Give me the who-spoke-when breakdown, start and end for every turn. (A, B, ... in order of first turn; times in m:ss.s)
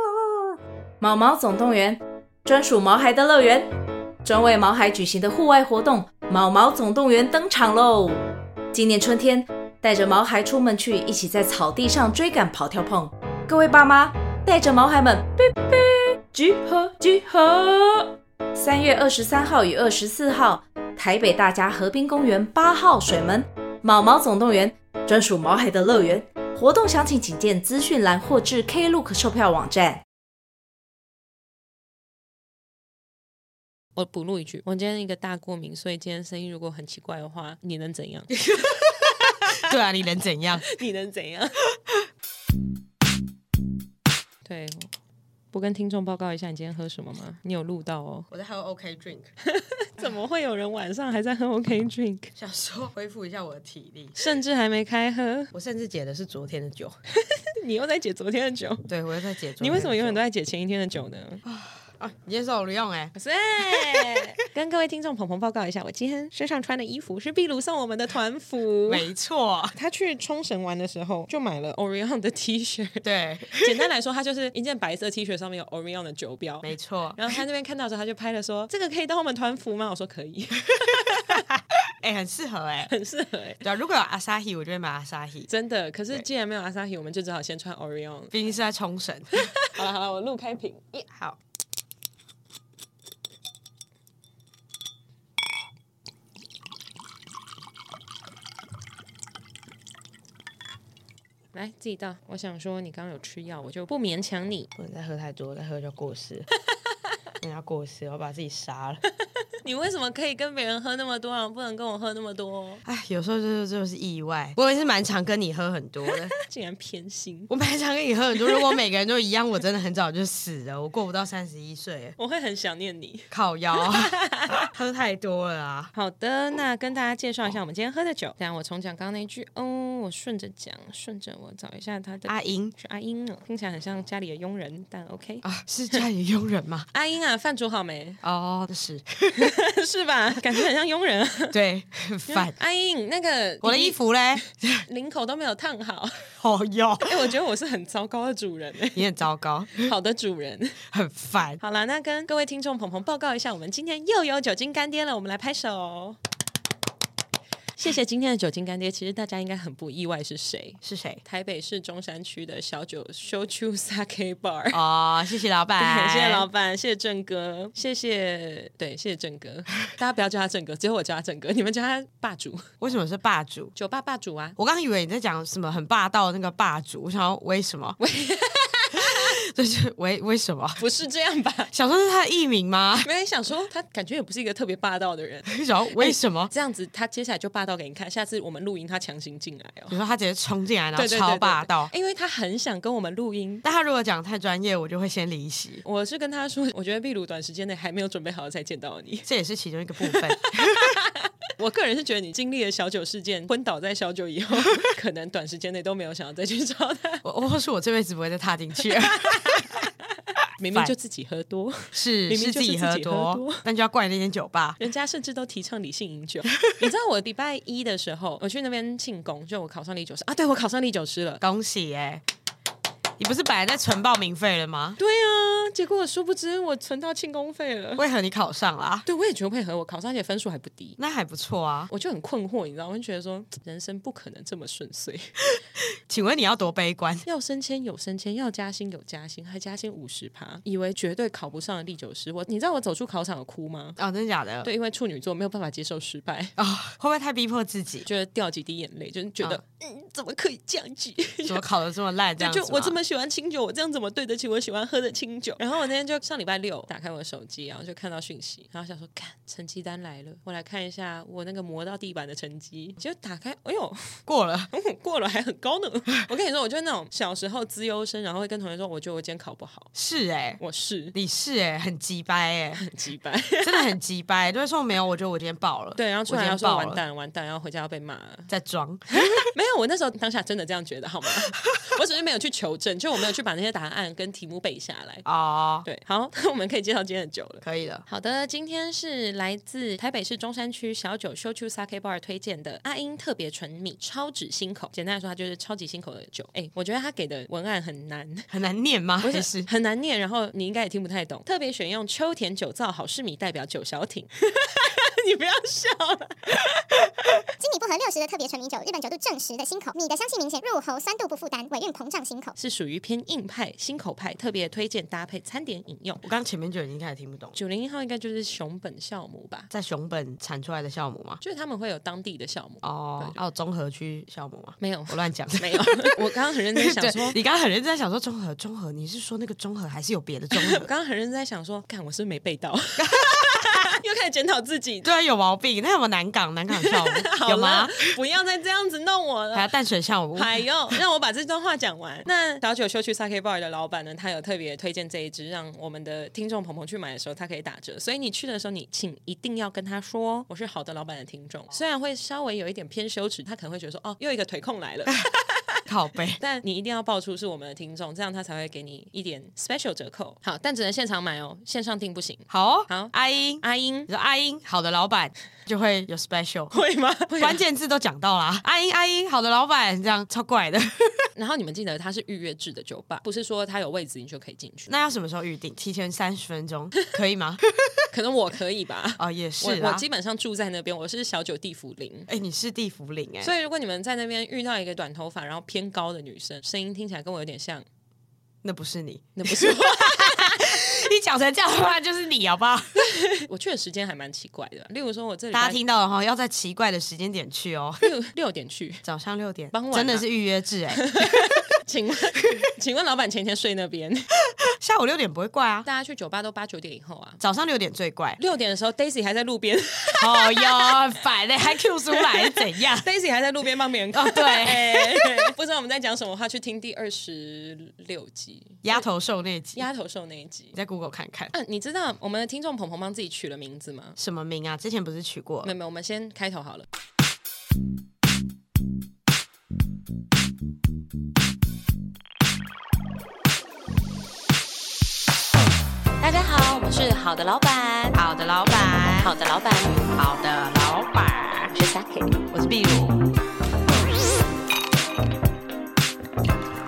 0:01.0-0:03.7 A
0:04.2-0:08.2 A
0:08.7-0:30.0 A
0:34.0-0:38.4 B
0:38.3-0:38.8 C
0:39.6-0:40.6 C
0:40.6-0:41.6 B
0:44.4-0:44.9 B
0:45.5-0:48.3 B
0:48.3-0:49.3 C
0:49.4-0:52.3 B
0:52.4-0:54.2 C
0:54.2-0:55.5 B
0:55.5-0:57.0 C
0:57.3-0:58.9 B
0:58.9-1:00.2 C
0:59.6-1:01.4 B
1:01.4-1:04.2 C
1:03.1-1:09.1 B
1:08.9-1:09.7 C
1:09.7-1:21.4 B
1:13.0-1:13.9 C
1:16.6-1:17.4 C
1:21.5-1:22.9 C
1:22.9-1:23.6 B
1:23.6-1:25.5 C
1:25.5-1:28.5 B
1:28.3-1:29.3 C
1:29.4-1:31.1 B
1:31.1-1:31.4 C
1:41.5-1:44.7 B
1:44.8-1:46.4 C
1:47.4-1:49.0 C
1:49.6-1:52.8 B
1:52.8-1:56.3 C
1:56.4-1:57.5 B
1:57.5-2:02.2 C
2:02.2-2:04.7 B
2:03.3-2:04.1 C
2:04.7-2:05.9 C
2:05.9-2:16.0 B
2:12.3-2:12.7 C
2:15.4-2:16.9 C
2:16.9-2:18.2 B
2:18.2-2:19.5 C
2:19.3-2:21.6 B
2:21.5-2:22.5 C
2:22.3-2:24.0 B
2:23.6-2:24.8 C
2:24.8-2:26.2 B
2:26.4-2:27.3 C
2:27.0-2:29.0 B
2:28.9-2:29.9 C
2:29.8-2:30.8 B
2:30.9-2:31.6 C
2:31.6-2:36.2 B
2:37.8-2:44.8 B
2:40.8-2:41.2 C
2:44.7-2:46.5 C
2:45.8-2:52.7 B
2:52.8-2:53.7 C
2:53.7-2:54.6 B
2:54.6-2:58.0 C
2:58.0-2:59.3 B
2:58.9-3:00.8 C
3:00.8-3:01.7 B
3:01.7-3:03.1 C
3:03.0-3:10.0 B
3:05.5-3:06.5 C
3:09.9-3:11.9 C
3:10.9-3:13.6 B
3:13.6-3:15.8 C
3:15.8-3:19.3 B
3:19.2-3:21.0 C
3:20.0-3:27.2 B
3:27.2-3:29.8 C
3:28.9-3:29.8 B
3:30.6-3:33.6 B
3:31.9-3:34.8 C
3:34.8-3:41.4 B
3:41.4-3:42.2 C
3:43.2-3:45.0 C
3:45.0-3:48.0 B
3:48.0-3:49.0 C
3:49.0-3:51.0 B
3:51.0-3:51.9 C
3:51.9-3:55.3 B
3:55.8-3:57.2 C
3:57.2-4:04.0 B
4:04.0-4:04.7 C
4:04.6-4:06.5 B
4:06.6-4:08.0 C
4:08.0-4:11.7 B
4:11.5-4:13.0 C
4:12.4-4:24.2 B
4:24.3-4:24.7 C
4:24.7-4:29.9 B
4:29.9-4:30.6 C
4:30.6-4:31.1 B
4:31.1-4:32.8 C
4:32.8-4:33.9 B
4:33.6-4:37.0 C
4:36.0-4:38.5 B
4:38.5-4:39.4 C
4:39.4-4:45.2 B
4:45.2-4:45.8 C
4:45.8-4:58.5 B
4:47.6-4:48.0 C
4:58.5-4:59.7 C
4:59.2-5:06.9 B
5:07.6-5:12.5 D
5:12.6-5:16.2 B
5:16.2-5:17.6 C
5:17.5-5:19.7 B
5:19.7-5:21.4 C
5:21.4-5:23.4 B
5:22.8-5:30.9 C
5:24.8-5:27.4 B
5:30.6-5:35.1 B
5:33.0-5:33.7 C
5:35.0-5:38.1 C
5:36.7-5:39.7 B
5:39.5-5:40.5 C
5:40.3-5:55.3 B
5:55.9-5:56.4 C
5:56.4-6:04.1 B
6:02.5-6:06.7 C
6:06.7-6:07.6 B
6:07.4-6:11.3 C
6:11.4-6:14.9 B
6:14.9-6:18.1 C
6:18.1-6:22.3 B
6:19.2-6:20.0 C
6:22.3-6:23.5 C
6:23.4-6:27.8 B
6:28.6-6:33.0 C
6:29.4-6:30.7 B
6:33.0-6:35.8 B
6:35.5-6:38.1 C
6:38.0-6:39.0 B
6:39.0-6:41.1 C
6:39.7-6:40.2 B
6:40.9-6:44.3 B
6:44.7-6:45.9 C
6:45.8-6:47.4 B
6:47.4-6:48.4 C
6:48.4-6:51.0 B
6:50.1-6:53.1 C
6:52.1-6:59.1 B
6:54.1-6:55.5 C
6:58.8-6:59.8 C
6:59.7-7:00.8 B
7:00.7-7:01.5 C
7:01.5-7:04.2 B
7:04.2-7:05.7 C
7:05.6-7:06.8 B
7:16.2-7:18.2 B
7:18.1-7:19.4 C
7:19.2-7:20.1 B
7:20.1-7:21.8 C
7:21.8-7:22.3 B
7:22.4-7:23.3 C